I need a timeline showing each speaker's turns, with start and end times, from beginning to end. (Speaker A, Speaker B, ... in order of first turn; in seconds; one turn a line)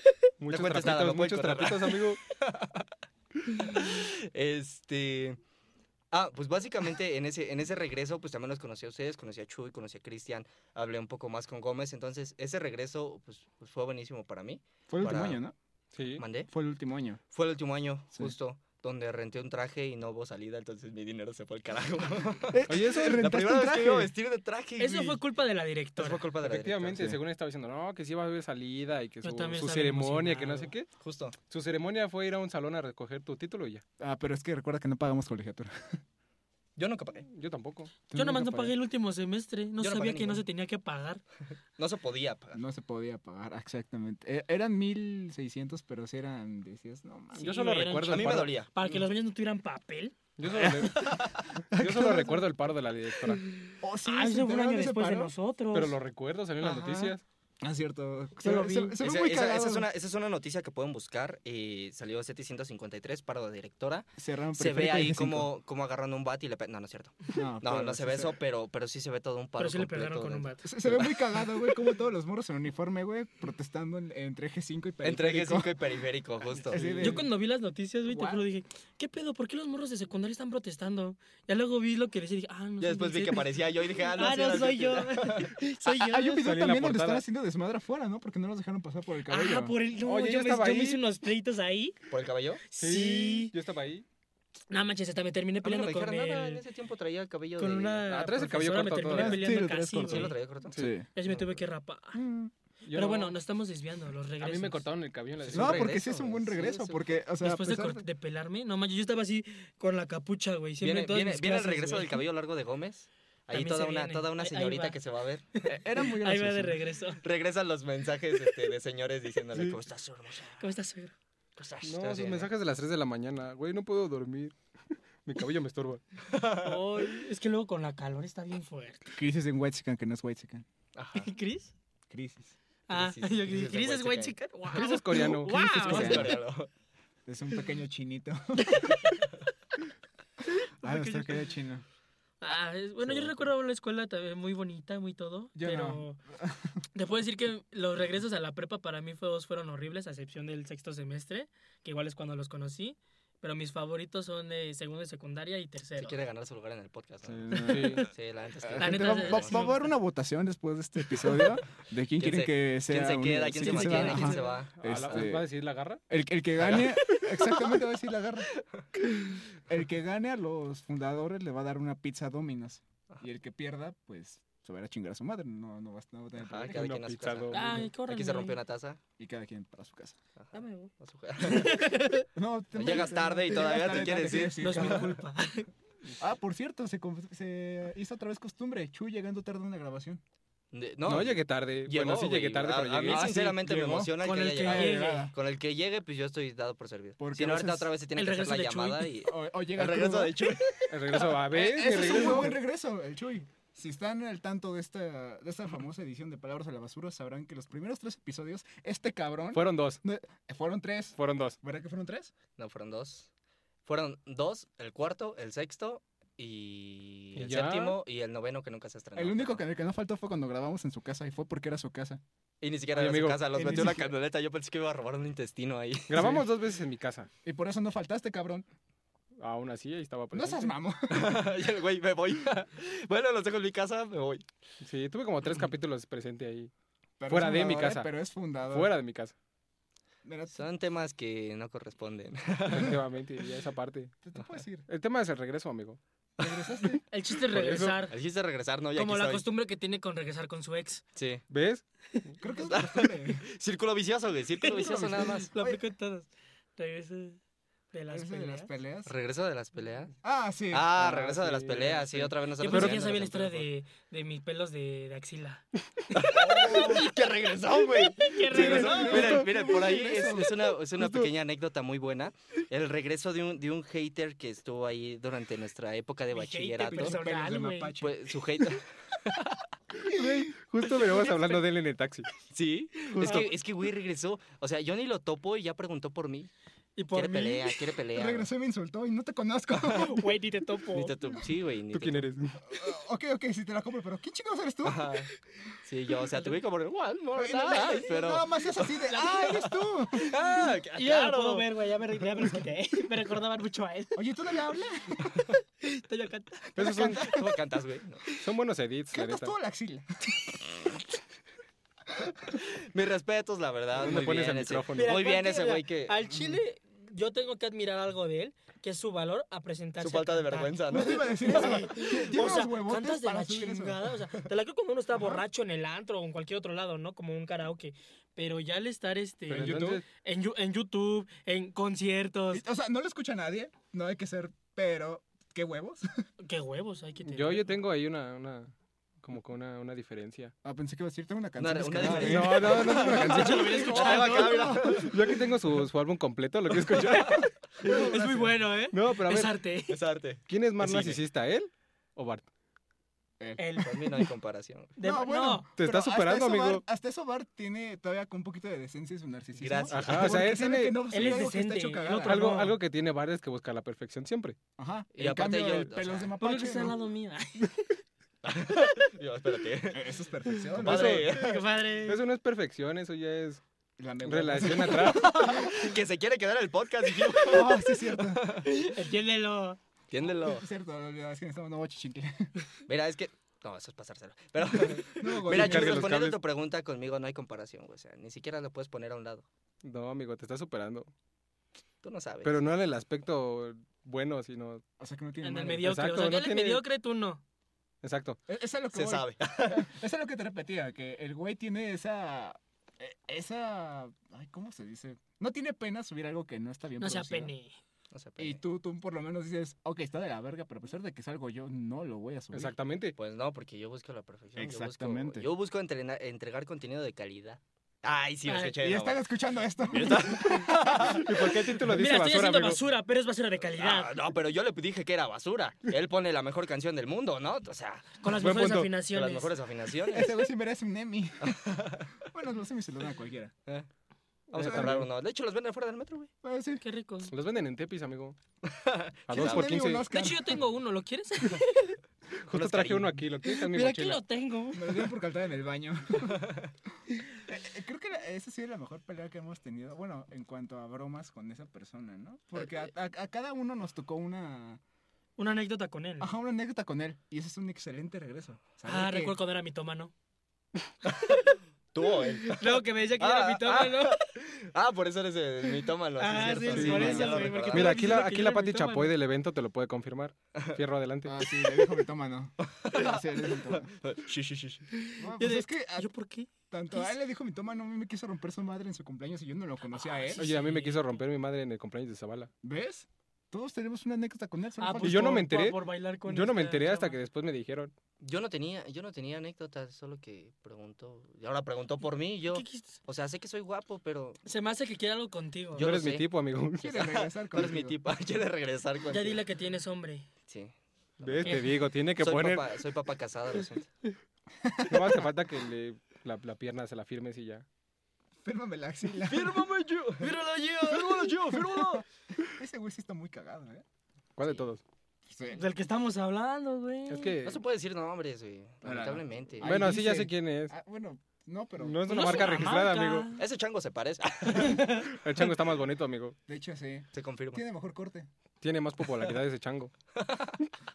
Speaker A: 0.4-2.2
Speaker B: 0.5-2.9
Speaker B: 3.6-5.4
Speaker B: 6.1-15.4
Speaker C: 14.9-15.5
Speaker A: 15.9-16.2
Speaker B: 16.2-16.5
Speaker C: 16.5-17.2
Speaker B: 17.3-25.2
Speaker C: 22.5-24.1
Speaker A: 22.7-23.2
Speaker D: 24.8-26.2
Speaker B: 25.9-27.0
Speaker A: 26.4-30.9
Speaker C: 26.9-27.2
Speaker D: 29.2-30.7
Speaker B: 31.0-31.4
Speaker A: 31.4-33.8
Speaker C: 34.0-36.0
Speaker B: 36.8-37.3
Speaker A: 37.2-37.9
Speaker C: 38.1-38.7
Speaker D: 38.1-41.2
Speaker B: 39.8-40.5
Speaker B: 41.8-42.6
Speaker C: 42.5-47.5
Speaker D: 47.3-50.1
Speaker A: 47.4-48.5
Speaker B: 48.1-48.7
Speaker A: 50.4-53.4
Speaker B: 50.5-51.5
Speaker C: 50.6-52.5
Speaker D: 53.4-56.0
Speaker C: 53.8-55.3
Speaker A: 55.7-57.2
Speaker C: 56.6-59.9
Speaker D: 58.4-59.0
Speaker B: 59.0-71.4
Speaker C: 64.2-65.5
Speaker C: 67.3-68.4
Speaker D: 69.6-70.7
Speaker C: 70.6-75.8
Speaker B: 75.0-77.1
Speaker C: 76.5-77.3
Speaker A: 76.7-77.2
Speaker D: 77.0-86.4
Speaker C: 78.1-78.4
Speaker B: 82.8-85.6
Speaker C: 86.0-89.8
Speaker A: 86.3-87.2
Speaker D: 89.3-92.0
Speaker A: 90.0-91.0
Speaker B: 92.1-92.6
Speaker D: 92.7-93.5
Speaker A: 92.8-94.0
Speaker D: 94.7-96.6
Speaker B: 95.6-98.1
Speaker D: 97.6-100.3
Speaker A: 98.1-99.5
Speaker C: 99.1-101.0
Speaker B: 100.0-100.8
Speaker D: 101.1-102.2
Speaker B: 101.3-101.5
Speaker C: 102.1-102.5
Speaker A: 102.8-103.4
Speaker D: 102.9-104.8
Speaker A: 104.4-106.0
Speaker B: 105.4-107.0
Speaker C: 105.5-108.0
Speaker D: 107.4-112.2
Speaker B: 110.8-115.5
Speaker D: 113.5-115.0
Speaker D: 115.6-117.2
Speaker C: 115.6-116.8
Speaker B: 117.2-120.7
Speaker D: 120.6-121.1
Speaker B: 121.5-122.5
Speaker A: 121.8-124.6
Speaker A: 125.2-126.0
Speaker B: 126.3-126.8
Speaker D: 126.6-129.2
Speaker C: 129.1-130.7
Speaker B: 130.9-131.3
Speaker D: 131.1-131.7
Speaker C: 132.1-132.5
Speaker D: 132.9-136.4
Speaker B: 132.9-134.9
Speaker A: 134.7-135.6
Speaker C: 135.4-136.4
Speaker B: 135.8-136.7
Speaker C: 137.2-138.9
Speaker D: 138.7-139.2
Speaker D: 140.8-141.5
Speaker C: 140.8-141.8
Speaker D: 142.4-146.2
Speaker B: 143.0-143.3
Speaker C: 145.5-146.8
Speaker D: 146.9-156.2
Speaker B: 156.0-159.7
Speaker C: 157.2-158.1
Speaker A: 157.6-158.1
Speaker C: 158.6-165.5
Speaker D: 158.8-159.9
Speaker B: 162.2-165.3
Speaker D: 163.6-164.6
Speaker A: 163.9-166.0
Speaker C: 166.1-168.5
Speaker B: 166.6-167.7
Speaker C: 169.6-176.8
Speaker B: 176.4-179.0
Speaker A: 176.7-177.7
Speaker D: 177.5-178.6
Speaker C: 179.2-180.2
Speaker B: 180.4-181.9
Speaker D: 180.5-182.3
Speaker C: 182.3-185.2
Speaker B: 182.7-185.1
Speaker D: 184.6-185.7
Speaker C: 186.1-190.2
Speaker B: 190.7-201.3
Speaker A: 191.1-193.7
Speaker C: 193.1-195.3
Speaker D: 194.2-195.3
Speaker C: 197.2-197.9
Speaker D: 198.2-199.1
Speaker C: 199.2-212.3
Speaker A: 200.9-202.6
Speaker A: 209.5-210.0
Speaker A: 211.2-211.6
Speaker B: 212.6-213.3
Speaker B: 213.8-219.6
Speaker A: 217.3-218.0
Speaker C: 219.2-222.2
Speaker B: 222.6-226.4
Speaker A: 222.9-223.9
Speaker C: 223.5-224.1
Speaker A: 226.1-227.3
Speaker C: 227.4-228.7
Speaker A: 229.4-230.7
Speaker C: 230.3-231.3
Speaker B: 231.1-234.4
Speaker A: 234.8-236.7
Speaker C: 237.2-238.9
Speaker A: 237.3-238.1
Speaker A: 238.7-239.3
Speaker C: 240.2-240.6
Speaker B: 240.5-243.0
Speaker A: 242.7-244.1
Speaker C: 244.2-244.9
Speaker A: 244.9-246.0
Speaker C: 246.4-247.0
Speaker D: 247.1-248.2
Speaker A: 247.5-248.0
Speaker B: 248.1-249.4
Speaker D: 248.9-251.0
Speaker B: 251.1-251.4
Speaker A: 251.5-252.3
Speaker C: 252.4-253.4
Speaker B: 252.7-255.5
Speaker D: 254.6-257.4
Speaker C: 254.7-255.8
Speaker D: 257.9-258.7
Speaker C: 258.1-259.1
Speaker B: 259.1-260.1
Speaker C: 260.2-260.9
Speaker B: 260.7-263.7
Speaker A: 260.9-263.1
Speaker D: 262.6-265.7
Speaker B: 266.1-277.2
Speaker C: 266.3-267.1
Speaker D: 266.5-266.9
Speaker D: 267.9-269.3
Speaker C: 268.4-270.7
Speaker A: 268.6-269.5
Speaker A: 271.0-271.3
Speaker D: 276.3-277.9
Speaker C: 276.9-278.3
Speaker B: 278.0-279.6
Speaker A: 280.1-282.3
Speaker C: 280.1-280.5
Speaker B: 282.4-286.5
Speaker D: 283.1-283.4
Speaker A: 283.1-283.5
Speaker D: 286.9-287.8
Speaker B: 287.1-288.5
Speaker C: 288.1-290.3
Speaker D: 289.9-291.1
Speaker B: 290.9-292.2
Speaker A: 291.9-292.6
Speaker C: 292.6-295.2
Speaker B: 294.8-295.3
Speaker B: 295.8-298.6
Speaker C: 297.3-300.3
Speaker D: 298.8-304.2
Speaker B: 300.2-301.7
Speaker C: 304.1-305.5
Speaker D: 305.8-306.6
Speaker C: 306.7-307.6
Speaker A: 306.8-307.3
Speaker B: 307.2-308.2
Speaker A: 308.4-309.5
Speaker C: 309.1-310.6
Speaker B: 312.5-316.2
Speaker A: 313.9-315.1
Speaker D: 314.9-332.6
Speaker C: 316.3-316.6
Speaker B: 320.0-321.9
Speaker C: 320.9-324.0
Speaker C: 325.1-325.4
Speaker A: 329.5-330.0
Speaker C: 329.5-330.0
Speaker C: 332.5-336.2
Speaker D: 336.4-337.7
Speaker A: 337.2-340.5
Speaker C: 340.6-345.1
Speaker B: 341.6-345.1
Speaker A: 342.2-343.8
Speaker D: 342.9-344.9
Speaker A: 344.9-347.9
Speaker D: 346.9-350.0
Speaker C: 347.8-348.6
Speaker A: 348.9-349.6
Speaker B: 349.9-351.2
Speaker A: 350.5-352.4
Speaker C: 353.4-353.7
Speaker D: 353.6-354.1
Speaker B: 353.8-354.9
Speaker D: 355.0-355.7
Speaker C: 355.0-362.5
Speaker A: 355.8-356.8
Speaker B: 359.6-360.5
Speaker A: 359.9-361.0
Speaker D: 361.1-362.8
Speaker A: 362.2-364.6
Speaker C: 364.8-367.0
Speaker B: 365.1-366.3
Speaker D: 366.4-367.7
Speaker B: 368.4-370.1
Speaker C: 369.9-371.3
Speaker B: 370.7-371.6
Speaker A: 370.8-371.3
Speaker D: 371.3-372.2
Speaker A: 372.1-373.6
Speaker C: 374.0-375.6
Speaker A: 374.2-375.5
Speaker B: 374.9-378.7
Speaker C: 377.4-378.5
Speaker D: 378.6-379.8
Speaker B: 380.1-380.6
Speaker C: 380.4-382.5
Speaker B: 382.9-389.4
Speaker C: 385.1-386.2
Speaker A: 385.4-386.4
Speaker A: 389.8-391.1
Speaker B: 392.0-392.5
Speaker A: 392.4-394.8
Speaker C: 395.0-395.9
Speaker D: 395.4-397.4
Speaker A: 395.8-396.8
Speaker A: 398.0-398.4
Speaker C: 398.5-407.5
Speaker B: 398.9-399.9
Speaker D: 407.0-407.7
Speaker B: 408.1-408.6
Speaker C: 408.4-412.7
Speaker A: 412.5-413.1
Speaker B: 413.2-419.2
Speaker C: 414.6-415.5
Speaker D: 418.4-418.8
Speaker C: 418.8-421.3
Speaker B: 419.9-421.5
Speaker A: 420.9-422.8
Speaker D: 421.8-424.1
Speaker B: 423.8-428.3
Speaker D: 428.2-429.5
Speaker A: 428.3-428.9
Speaker B: 429.1-430.4
Speaker C: 430.1-431.6
Speaker B: 431.4-432.1
Speaker C: 432.2-433.5
Speaker A: 434.5-435.1
Speaker B: 434.5-436.3
Speaker C: 434.6-435.0
Speaker C: 436.4-436.8
Speaker D: 436.8-437.3
Speaker A: 437.3-438.4
Speaker B: 438.6-439.7
Speaker A: 439.3-440.0
Speaker C: 439.3-440.6
Speaker D: 440.0-442.0
Speaker A: 442.5-444.2
Speaker B: 442.5-443.2
Speaker D: 443.4-445.1
Speaker C: 444.7-446.6
Speaker C: 447.4-454.8
Speaker B: 452.6-452.9
Speaker D: 455.4-456.3
Speaker C: 456.2-459.4
Speaker D: 458.9-460.1
Speaker B: 461.9-468.1
Speaker D: 462.5-464.2
Speaker D: 466.2-469.1
Speaker C: 466.6-467.6
Speaker A: 466.7-471.4
Speaker C: 471.2-473.9
Speaker B: 472.6-474.9
Speaker D: 474.9-477.1
Speaker C: 475.2-476.1
Speaker C: 476.7-480.4
Speaker D: 479.9-481.1
Speaker A: 480.4-482.5
Speaker C: 482.6-485.5
Speaker D: 484.8-487.2
Speaker A: 485.0-487.9
Speaker B: 488.2-494.4
Speaker D: 492.5-493.0
Speaker D: 494.4-495.9
Speaker B: 495.7-496.3
Speaker A: 495.8-497.1
Speaker C: 496.8-498.0
Speaker B: 496.9-499.4
Speaker D: 499.1-500.2
Speaker B: 500.5-503.9
Speaker A: 501.2-502.6
Speaker C: 504.6-505.2
Speaker A: 504.9-507.6
Speaker C: 508.4-509.6
Speaker B: 509.2-512.0
Speaker C: 510.9-513.8
Speaker A: 514.4-514.8
Speaker C: 515.3-515.7
Speaker D: 515.5-517.4
Speaker A: 517.1-517.6
Speaker B: 517.4-519.8
Speaker C: 518.8-522.7
Speaker A: 519.6-520.7
Speaker A: 521.8-523.3
Speaker D: 522.1-523.4
Speaker B: 523.4-525.0
Speaker D: 524.5-525.1
Speaker A: 524.6-526.4
Speaker C: 526.5-528.3
Speaker B: 527.1-527.6
Speaker A: 528.6-529.9
Speaker B: 529.1-529.3
Speaker B: 530.1-530.6